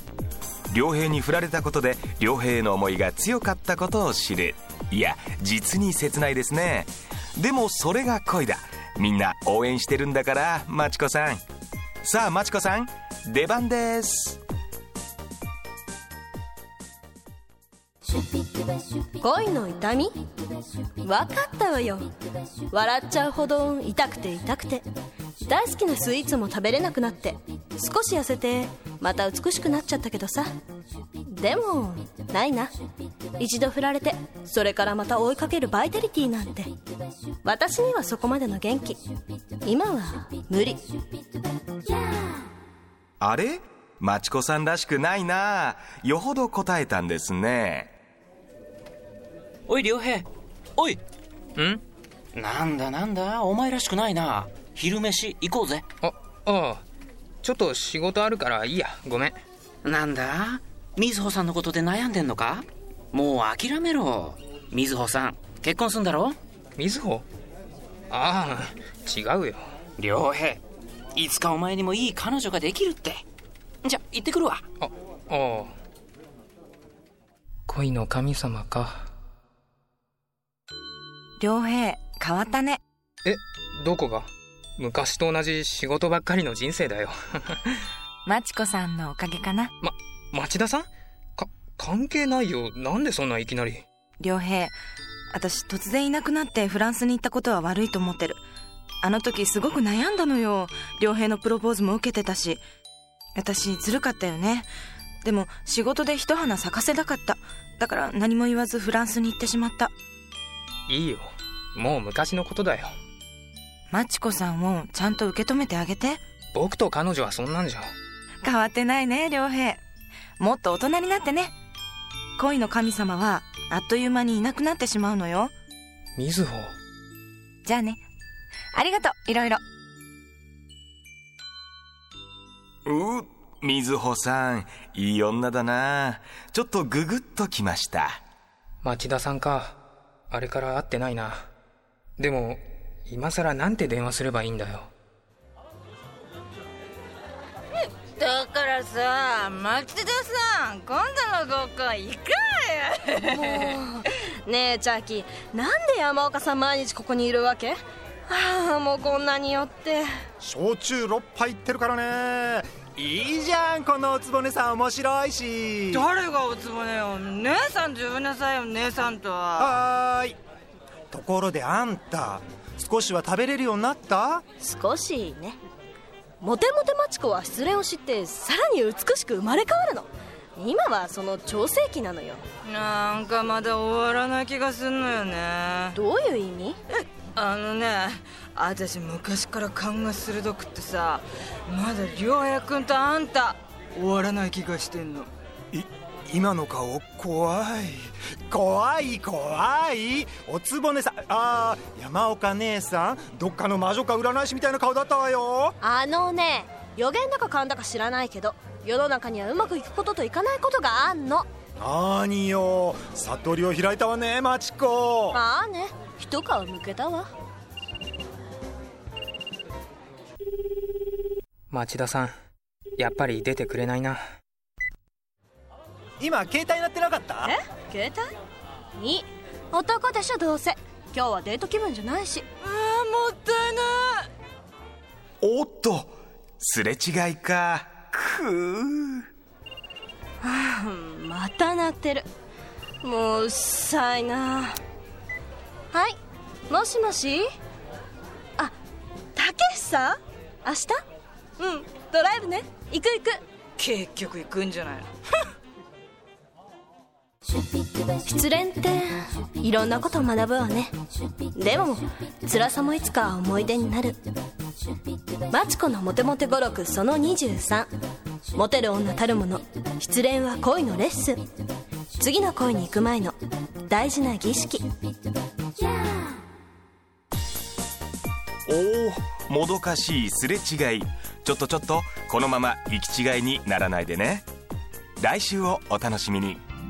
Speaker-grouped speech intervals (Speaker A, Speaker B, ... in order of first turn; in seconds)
Speaker A: 0.7-11.4, 12.0-14.4, 43.2-47.9, 132.9-138.2, 235.4-239.2, 278.7-284.5, 285.2-286.6
Speaker B: 19.2-20.1, 21.0-22.1, 22.7-24.9, 25.4-30.5, 31.3-32.7, 33.4-36.7, 37.4-39.0, 39.6-40.8, 153.3-157.8, 158.3-160.1, 174.6-175.6, 176.4-182.4, 185.9-186.8, 205.8-211.5, 215.3-217.3, 227.4-228.3, 229.0-232.4, 240.4-242.3, 243.0-244.8, 245.9-246.2, 246.7-247.5, 249.4-251.0, 251.6-253.4, 258.2-260.9, 261.5-264.2, 265.5-267.9, 268.6-271.4, 272.2-273.4, 273.9-274.9
Speaker C: 49.7-51.0, 52.3-55.9, 59.8-66.4, 70.0-70.6, 71.1-73.2, 73.8-74.7
Speaker D: 51.6-51.8, 56.0-56.9, 57.4-59.4, 66.8-67.3, 68.1-69.7, 74.8-75.8, 77.7-79.1, 83.2-87.9, 89.8-93.8, 110.9-112.9, 116.5-117.9, 126.2-126.8, 138.8-139.8, 140.3-141.4, 142.2-144.9, 221.7-222.4, 223.0-224.2
Speaker E: 81.4-82.8, 88.3-89.7, 94.2-94.8, 95.3-98.4, 99.0-102.6, 103.4-104.7, 105.2-109.9, 113.9-116.2, 118.4-119.8, 120.4-121.5, 122.4-125.5, 127.7-128.0, 128.7-129.6
Speaker F: 148.2-153.2, 166.0-169.7, 182.7-186.0, 187.4-195.3, 232.6-234.3, 253.8-255.1
Speaker G: 160.4-166.1, 169.6-170.4, 171.1-174.4, 195.7-205.8, 211.8-215.4, 226.2-227.5